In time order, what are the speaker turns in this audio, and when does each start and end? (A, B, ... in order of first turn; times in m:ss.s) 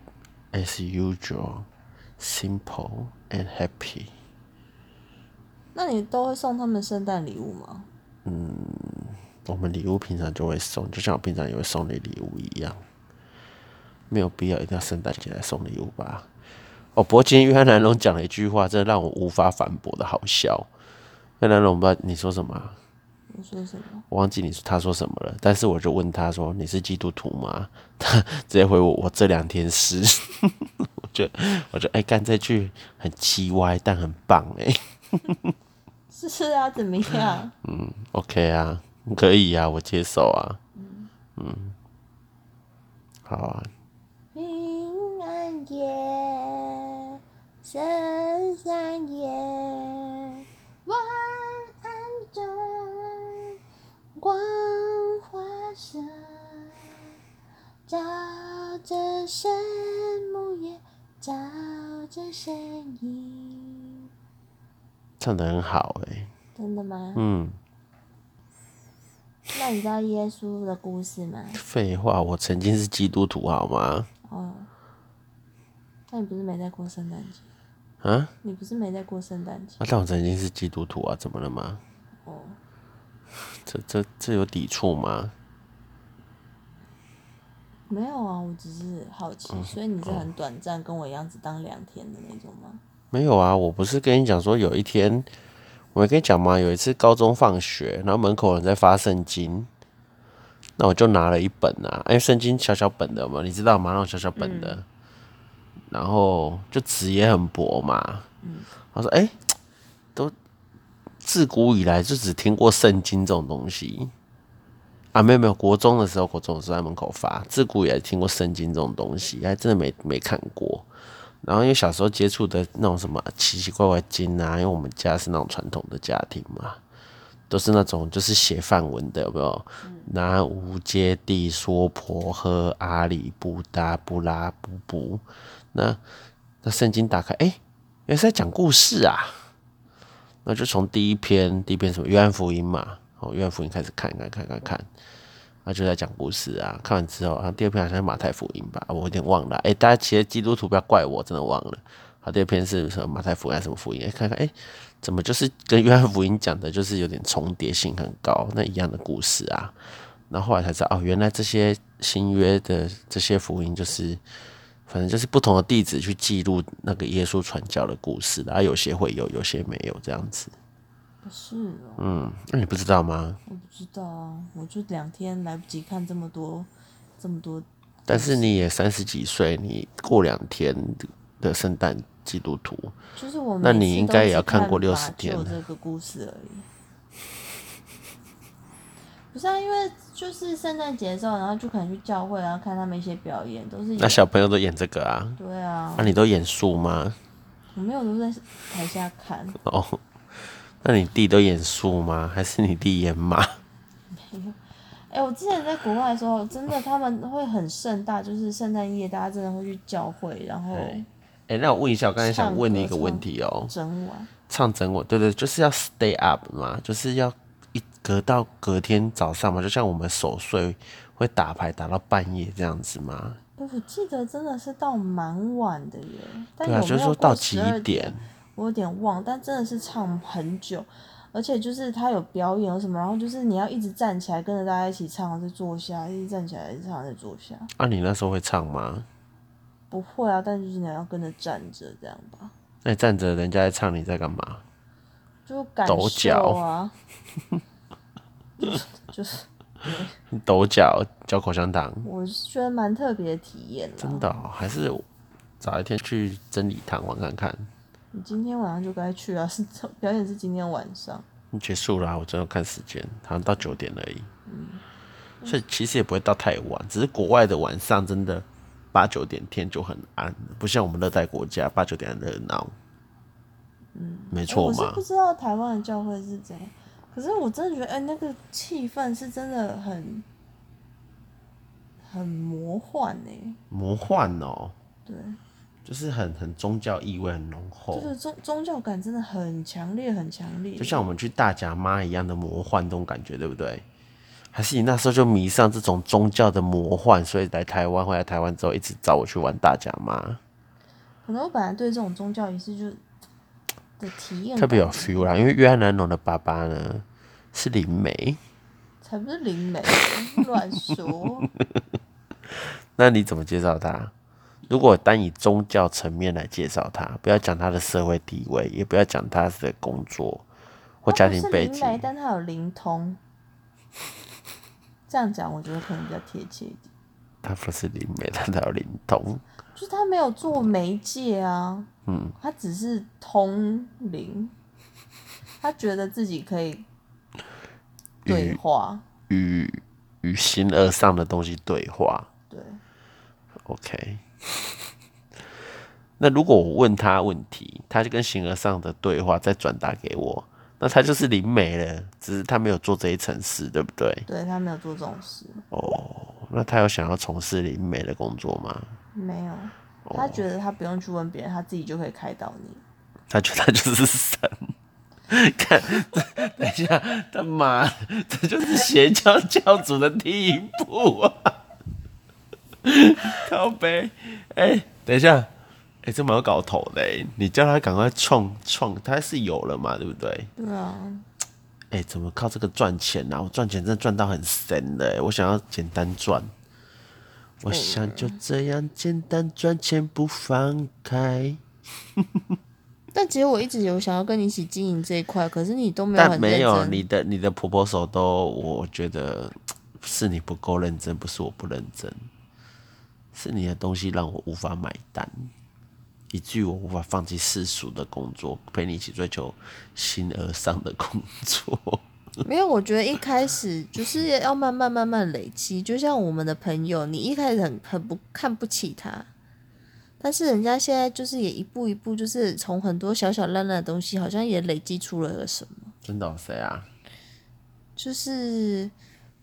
0:00.5-0:01.7 A
0:02.2-0:04.1 A
0:05.8-0:07.9 B
0:08.2-0:12.8 A
0:14.1-0:16.3 A
0:17.0-0:20.7 A
0:21.4-0:22.8 A
0:23.3-0:24.0 B
0:24.1-0:35.6 A
0:36.1-0:37.5 B
0:37.6-0:40.6 A
0:40.8-0:41.1 B
0:41.4-0:41.8 A
0:43.3-0:43.7 A
0:44.3-0:53.6 B
0:54.2-0:56.9 B
0:57.9-1:04.1 B
1:05.2-1:06.3 A
1:06.6-1:07.2 B
1:07.2-1:07.6 A
1:09.5-1:11.6 B
1:11.5-1:14.1 A
1:14.3-1:14.7 B
1:16.1-1:17.5 B
1:18.0-1:18.3 A
1:18.4-1:19.8 B
1:19.8-1:21.8 A
1:22.2-1:22.6 B
1:23.6-1:25.3 A
1:27.9-1:32.8 B
1:29.5-1:30.3 A
1:33.1-1:35.3 A
1:35.9-1:39.7 A
1:40.8-1:44.8 A
1:44.4-1:44.8 B
1:45.9-1:48.3 A
1:48.4-1:48.7 B
1:48.9-1:49.5 A
1:51.2-1:54.1 A
1:55.1-2:00.9 A
2:01.4-2:06.8 A
2:07.5-2:16.0 A
2:16.6-2:19.4 A
2:20.4-2:24.9 A
2:25.6-2:39.8 A
2:40.3-2:44.2 A
2:44.9-2:50.5 A
2:51.2-2:52.0 B
2:52.0-2:53.4 A
2:53.5-2:58.5 B
2:58.1-3:03.0 A
3:03.2-3:06.7 B
3:03.6-3:05.6 A
3:09.3-3:14.2 B
3:14.0-3:15.4 A
3:15.4-3:16.2 B
3:16.0-3:17.2 A
3:17.7-3:19.6 B
3:19.6-3:20.0 A
3:20.8-3:23.6 A
3:24.1-3:31.1 B
3:30.7-3:33.7 A
3:32.2-3:34.3 B
3:34.5-3:43.4 A
3:43.6-3:57.7 B
3:46.6-3:48.2 A
3:57.8-3:59.1 A
3:59.9-4:02.5 B
4:02.8-4:04.6 A
4:05.5-4:06.9 B
4:05.9-4:06.6 A
4:08.6-4:10.1 B
4:10.3-4:12.1 A
4:12.0-4:14.3 B
4:14.0-4:15.0 A
4:15.6-4:17.7 A
4:18.1-4:21.2 B
4:21.5-4:24.3 A
4:24.5-4:24.8 B
4:25.4-4:32.8 A
4:33.9-4:40.3 B
4:34.3-4:35.0 A
4:42.0-4:43.6 B
4:43.7-4:44.8 A
4:45.1-4:45.4 B
4:45.8-4:48.1 A
4:47.9-4:51.0 B
4:50.8-4:53.8 A
4:54.5-5:00.4 A
5:01.2-5:03.0 B
5:04.0-5:05.3 B
5:04.6-5:08.4 A
5:09.0-5:11.5 B
5:13.0-5:14.1 A
5:14.7-5:20.4 A
5:21.0-5:22.0 A
5:21.1-5:23.2 B
5:25.1-5:26.9 B
5:27.4-5:29.4 A
5:29.7-5:34.5 B
5:32.1-5:32.4 A
5:35.6-5:36.9 B
5:38.2-5:38.6 A
5:38.3-5:39.0 B
5:39.3-5:42.3 A
5:42.5-5:42.8 B
5:43.6-5:44.7 A
5:46.2-5:54.3 A
5:54.3-5:55.6 B
5:55.7-5:59.0 A
5:59.1-6:02.8 B
6:00.0-6:00.4 A
6:03.3-6:04.7 A
6:05.3-6:11.6 A
6:12.8-6:15.5 A
6:16.0-6:20.5 A
6:20.6-6:21.2 B
6:21.9-6:26.5 A
6:27.6-6:31.6 A
6:27.7-6:28.4 B
6:33.1-6:37.0 B
6:36.2-6:42.3 A
6:43.3-6:45.5 A
6:46.3-6:52.0 A
6:52.4-6:59.3 B
7:00.2-7:05.9 B
7:06.0-7:06.9 A
7:08.0-7:08.9 B